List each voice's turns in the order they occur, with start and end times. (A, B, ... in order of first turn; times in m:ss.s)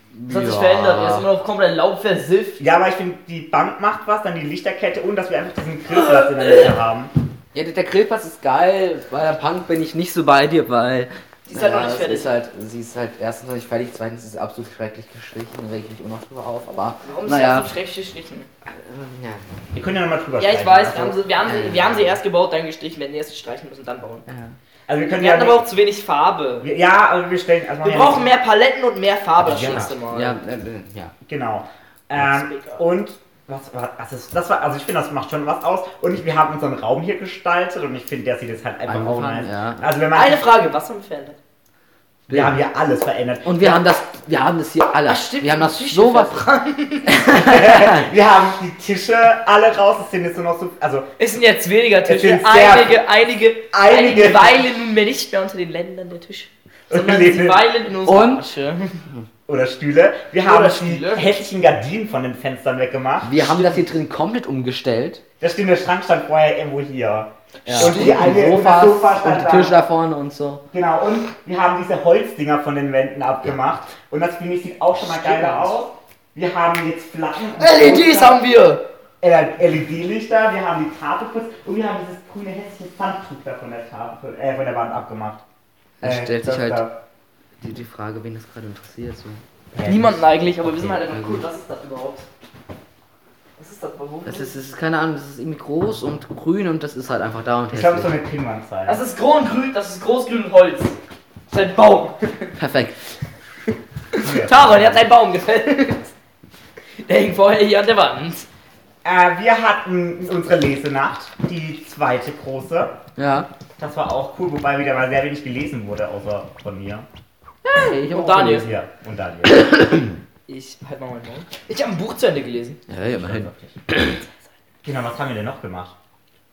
0:00.1-0:01.3 A
0:00.3-0:02.6 B
0:02.6-0:07.1 C
0:06.0-0:06.6 B
0:07.5-0:17.7 A
0:11.5-0:12.3 B
0:17.0-0:18.5 B
0:18.6-0:19.6 A
0:19.7-0:21.2 C
0:20.4-0:24.3 B
0:21.4-0:22.1 A
0:24.3-0:24.5 A
0:24.9-0:25.7 C
0:25.2-0:26.7 B
0:26.6-0:28.3 C
0:27.8-0:30.4 B
0:29.4-0:30.0 C
0:29.4-0:31.1 A
0:31.2-0:40.5 C
0:32.3-0:32.8 B
0:38.9-0:39.9 A
0:40.1-0:41.4 B
0:42.3-0:42.6 A
0:42.3-0:43.9 C
0:43.4-0:46.4 A
0:45.0-0:47.5 B
0:47.1-0:48.1 A
0:47.3-0:51.1 C
0:51.2-0:59.0 B
0:52.0-0:53.0 C
0:53.7-0:54.6 C
0:56.9-0:57.6 C
0:58.0-0:58.4 A
0:59.5-1:03.4 C
1:00.4-1:01.4 B
1:03.2-1:05.2 A
1:05.4-1:09.8 C
1:07.6-1:10.6 A
1:07.8-1:08.1 B
1:10.7-1:18.4 C
1:15.2-1:15.5 A
1:17.6-1:18.8 B
1:19.2-1:25.4 C
1:26.0-1:26.8 A
1:26.0-1:26.9 C
1:27.6-1:29.4 A
1:29.7-1:30.3 C
1:29.8-1:32.3 B
1:30.6-1:31.4 A
1:33.6-1:34.6 B
1:34.2-1:38.1 A
1:37.7-1:39.0 C
1:38.8-1:41.0 B
1:41.5-1:42.5 B
1:42.6-1:43.0 A
1:44.1-1:46.1 B
1:44.2-1:45.0 C
1:47.0-1:48.5 B
1:49.0-1:53.0 C
1:53.2-1:53.5 A
1:53.8-1:57.0 C
1:57.6-1:58.7 A
1:58.1-1:58.7 B
1:58.4-1:59.7 C
2:00.5-2:02.8 B
2:02.9-2:04.2 A
2:03.1-2:03.8 C
2:04.8-2:05.9 C